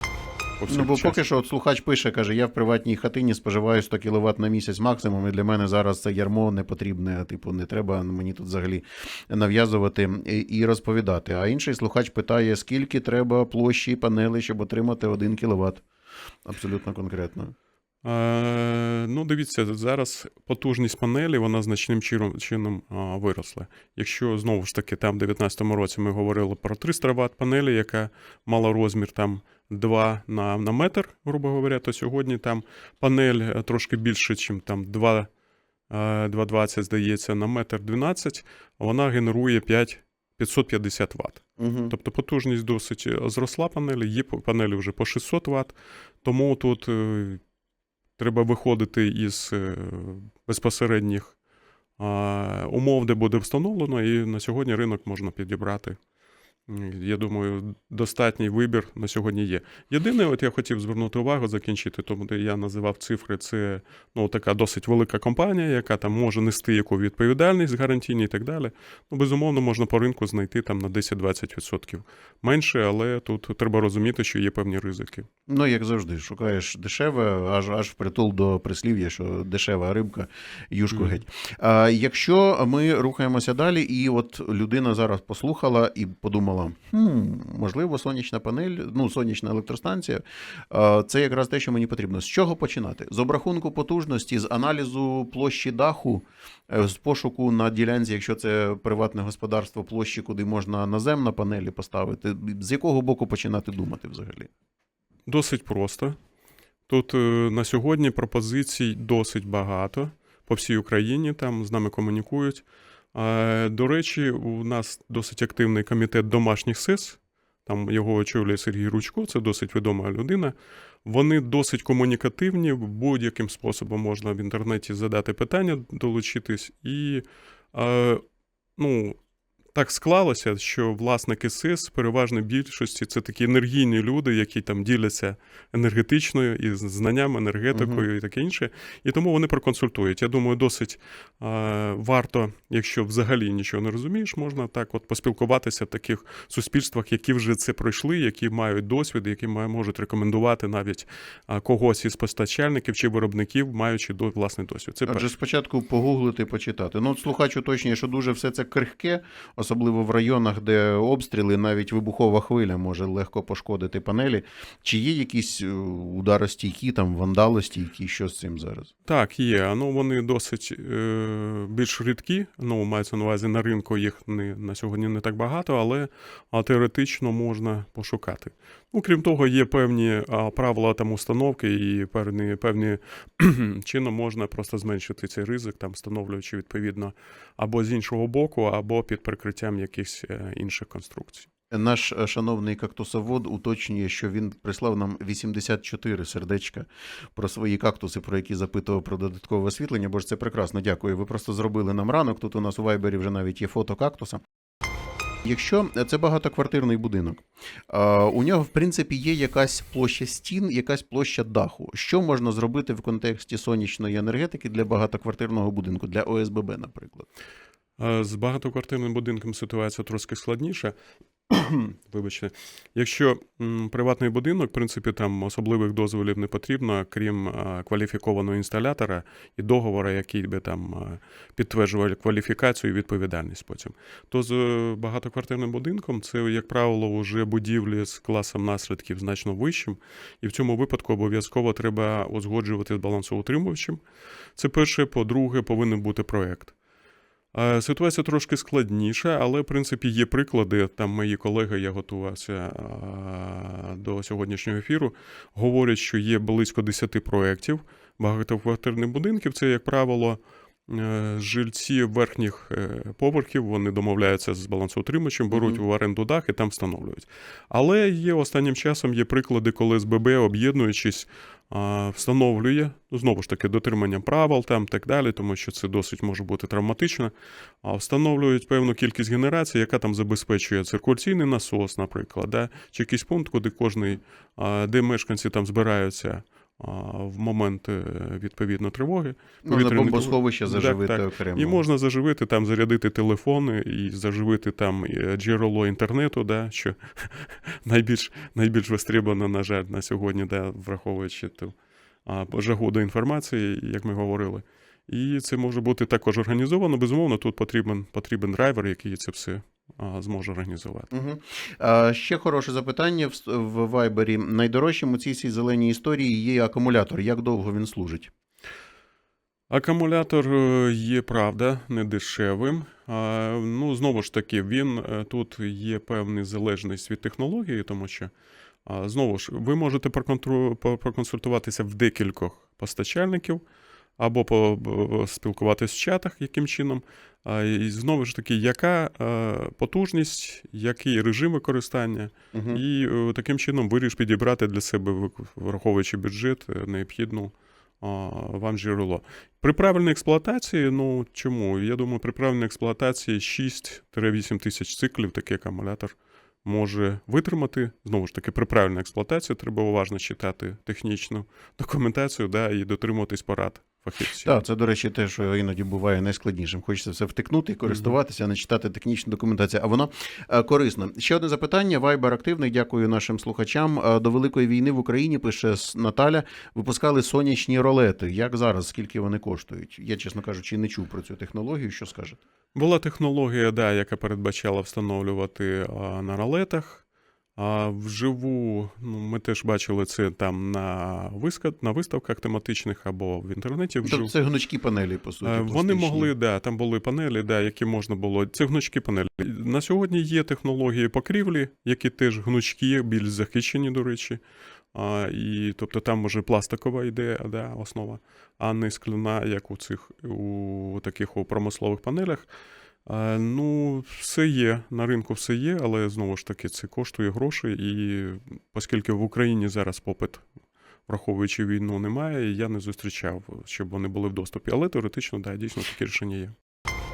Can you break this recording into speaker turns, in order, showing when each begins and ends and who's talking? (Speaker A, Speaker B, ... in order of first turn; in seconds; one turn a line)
Speaker A: 0.6-1.2
Speaker B: 0.7-15.8
Speaker B: 16.4-17.5
Speaker A: 18.0-35.3
Speaker A: 35.9-47.4
Speaker B: 41.6-41.9
Speaker A: 48.2-51.3
Speaker A: 52.0-56.0
Speaker A: 56.7-75.3
Speaker B: 75.5-104.5
Speaker A: 105.3-106.2
Speaker A: 106.9-128.2
Speaker A: 128.8-129.2
Speaker A: 129.7-155.3
Speaker B: 137.7-138.0
Speaker B: 155.1-168.9
Speaker A: 169.0-191.5
Speaker B: 191.7-204.4
Speaker B: 205.4-217.3
Speaker A: 218.0-220.9
Speaker A: 221.5-244.0
Speaker A: 244.6-246.7
Speaker A: 247.5-311.1
Speaker B: 265.5-265.8
Speaker B: 289.6-291.8
Speaker B: 311.1-318.3
Speaker A: 319.7-328.3
Speaker A: 328.8-333.6
Speaker A: 334.2-364.5
Speaker B: 342.5-342.8
Speaker B: 364.4-382.4
Speaker A: 382.7-387.0
Speaker A: 387.6-394.3
Speaker B: 394.0-396.3
Speaker A: 395.4-404.4
Speaker A: 404.9-412.5
Speaker A: 413.0-420.4
Speaker A: 421.1-426.6